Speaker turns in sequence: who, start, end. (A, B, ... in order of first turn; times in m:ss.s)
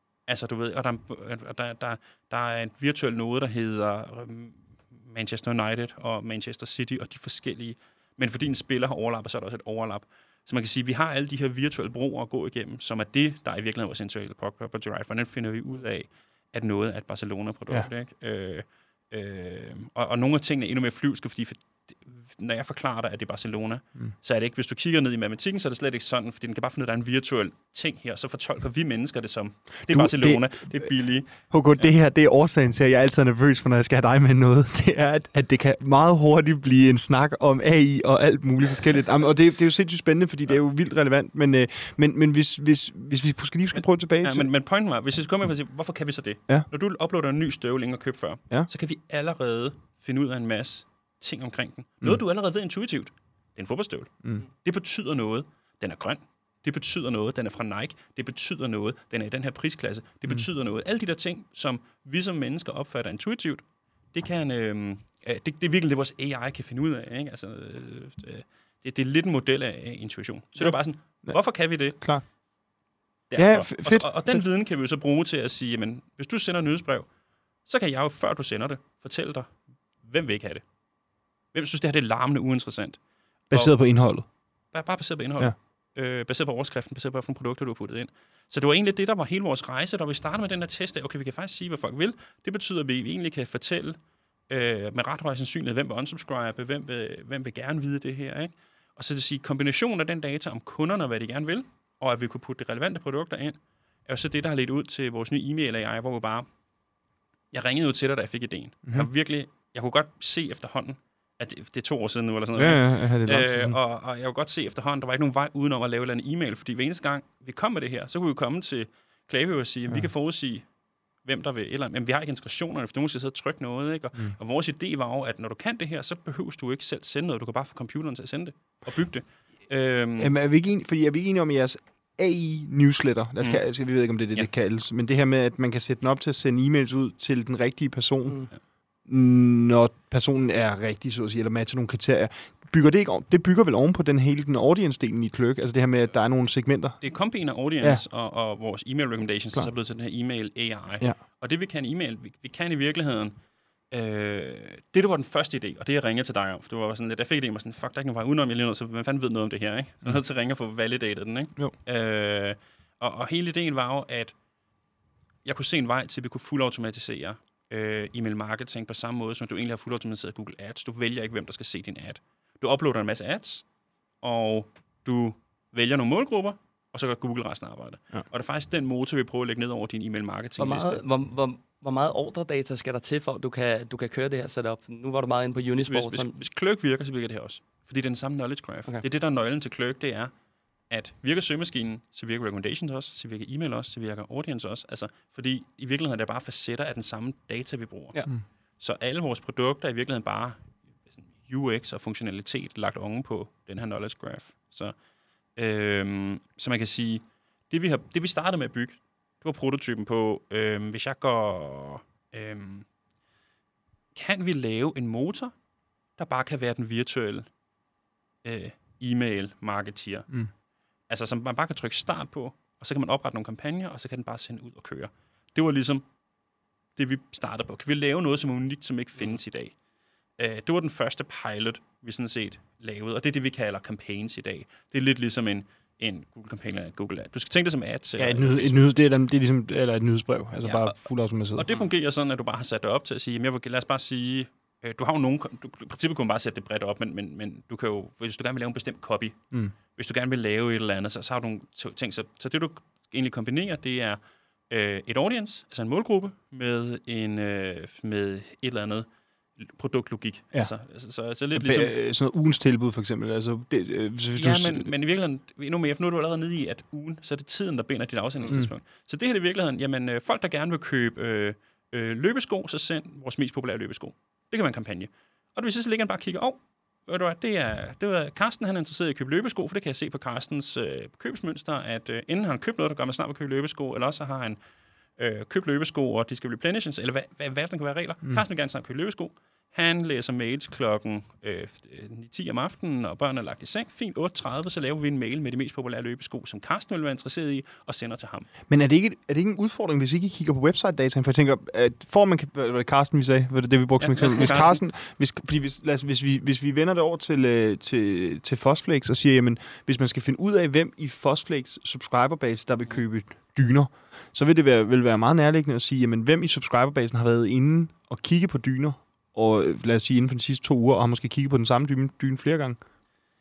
0:00.3-0:31.9 A
0:29.9-0:44.5 B
0:43.8-1:12.0 A
1:10.6-1:12.2 B
1:13.3-1:17.1 A
1:13.4-1:14.4 B
1:17.6-1:20.6 A
1:21.5-1:23.0 A
1:23.5-1:24.2 B
1:24.7-1:34.0 A
1:34.5-1:46.5 A
1:47.5-2:00.6 A
1:52.5-1:53.8 B
2:01.2-2:10.3 A
2:10.2-2:18.5 B
2:19.0-2:27.0 B
2:27.0-2:33.3 A
2:33.9-2:44.3 A
2:45.4-2:53.6 A
2:54.2-3:01.0 A
3:00.6-3:06.4 C
3:05.8-3:10.3 A
3:10.9-3:18.2 A
3:18.8-3:24.9 A
3:25.6-3:32.9 A
3:34.1-3:35.5 A
3:36.2-3:37.5 A
3:38.4-3:40.4 A
3:41.1-3:46.0 A
3:47.0-3:49.8 A
3:50.4-3:58.8 A
3:58.2-4:01.7 B
4:00.6-4:21.9 A
4:21.5-4:24.9 B
4:24.3-4:44.6 A
4:28.4-4:28.7 B
4:45.2-4:58.5 A
4:58.7-5:22.8 B
5:04.0-5:04.8 A